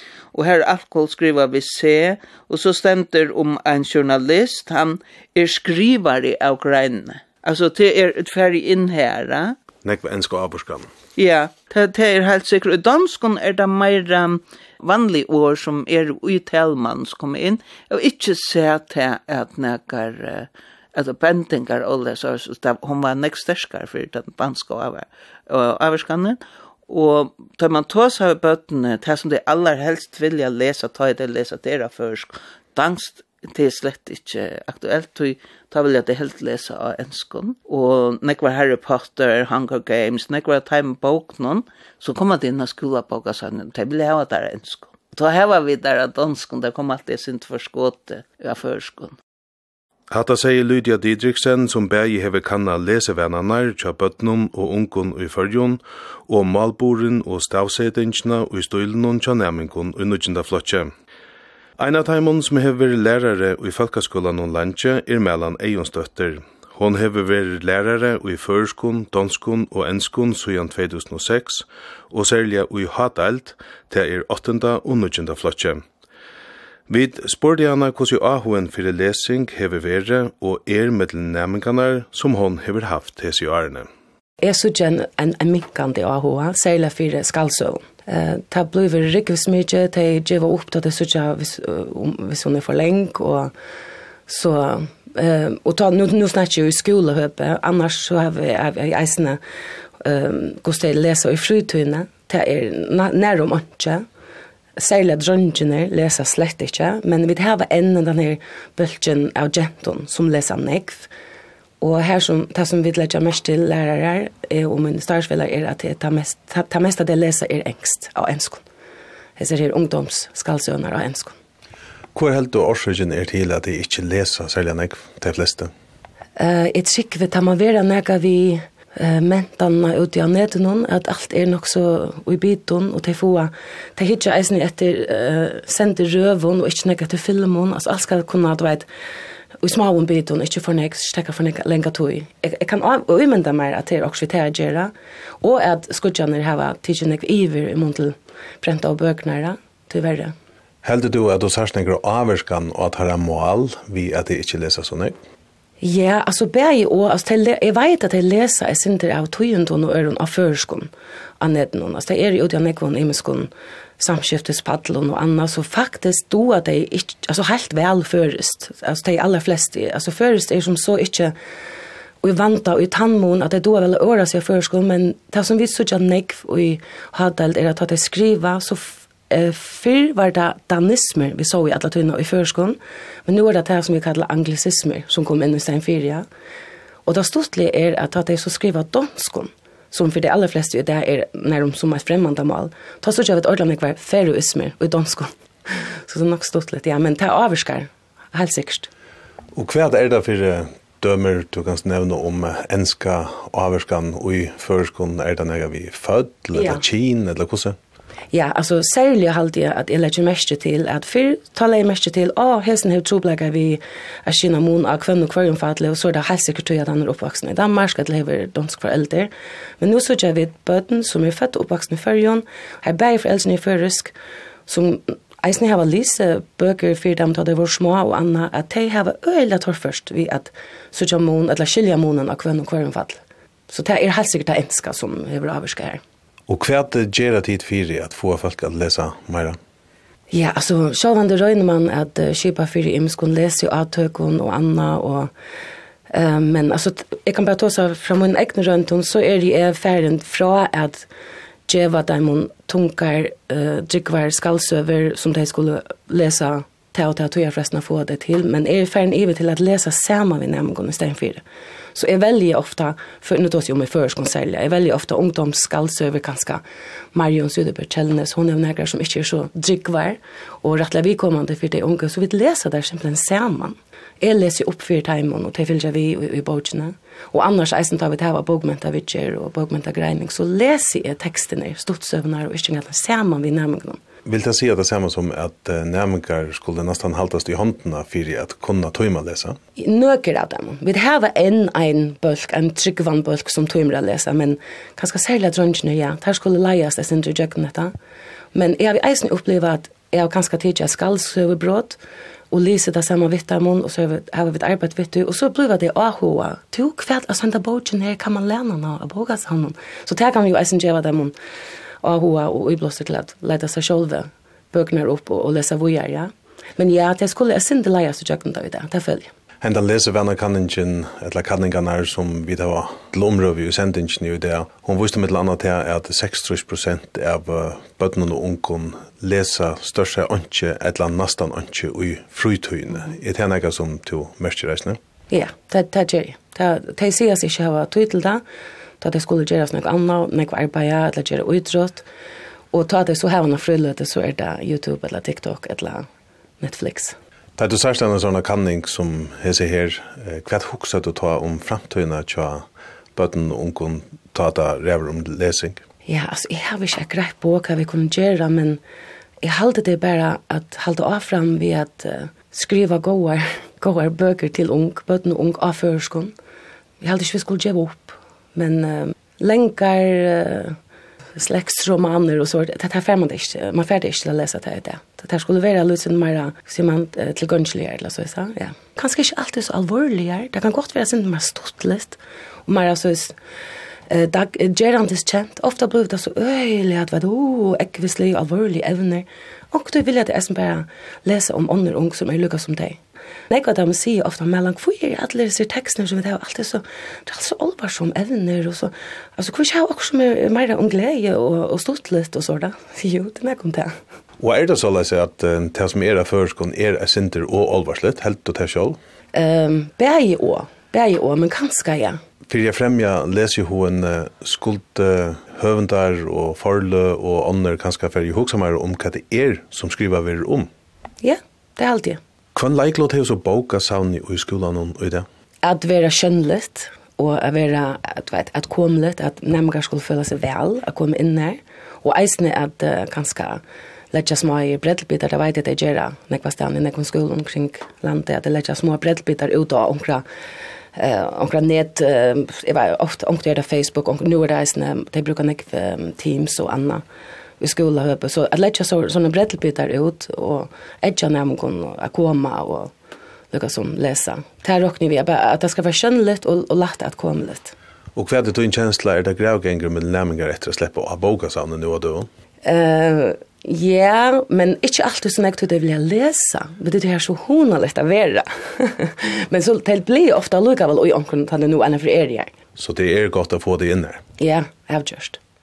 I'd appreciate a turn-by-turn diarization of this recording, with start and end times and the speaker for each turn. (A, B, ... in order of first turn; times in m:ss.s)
0:00.3-0:09.6 A
0:09.8-0:10.9 B
0:11.2-0:49.2 A
0:50.1-1:00.9 B
1:01.8-1:15.8 B
1:16.9-1:23.9 B
1:24.4-1:33.5 C
1:34.3-1:39.4 C
1:40.0-1:44.0 C
1:44.8-1:51.1 C
1:51.8-1:58.6 C
1:59.4-2:01.4 C
2:02.1-2:05.7 B
2:06.4-2:18.9 C
2:19.6-2:30.3 C
2:30.8-2:35.2 B
2:35.8-2:51.3 C
2:52.2-3:06.3 C
3:07.1-3:18.9 C
3:19.5-3:27.8 B
3:26.6-3:26.8 C
3:28.3-3:44.1 C
3:44.7-3:56.0 C
3:56.5-3:59.6 B
4:00.3-4:05.3 C
4:06.1-4:11.1 C
4:11.7-4:21.4 C
4:22.0-4:26.6 C
4:27.1-4:44.0 C
4:44.2-4:49.6 B
4:49.8-4:57.9 C
4:58.5-5:02.0 C
5:02.5-5:11.3 C
5:12.0-5:19.3 C
5:19.6-5:35.0 B
5:35.3-5:38.4 C
5:39.0-5:42.0 C
5:42.7-5:46.1 C
5:46.6-5:47.2 C
5:47.6-5:55.8 B
5:56.1-5:58.8 C
5:59.4-6:06.3 C
6:07.0-6:10.8 C
6:11.4-6:23.4 C
6:24.1-6:43.9 C
6:44.4-6:49.0 B
6:49.3-6:52.2 C
6:52.5-7:00.7 B
7:01.2-7:02.2 C
7:02.6-7:05.3 B
7:05.6-7:13.6 C
7:14.1-7:20.2 C
7:21.0-7:27.0 C
7:27.6-7:32.9 C
7:33.5-7:37.7 C
7:38.2-7:42.3 B
7:42.6-7:52.5 C
7:52.8-7:54.2 B
7:54.4-7:55.4 C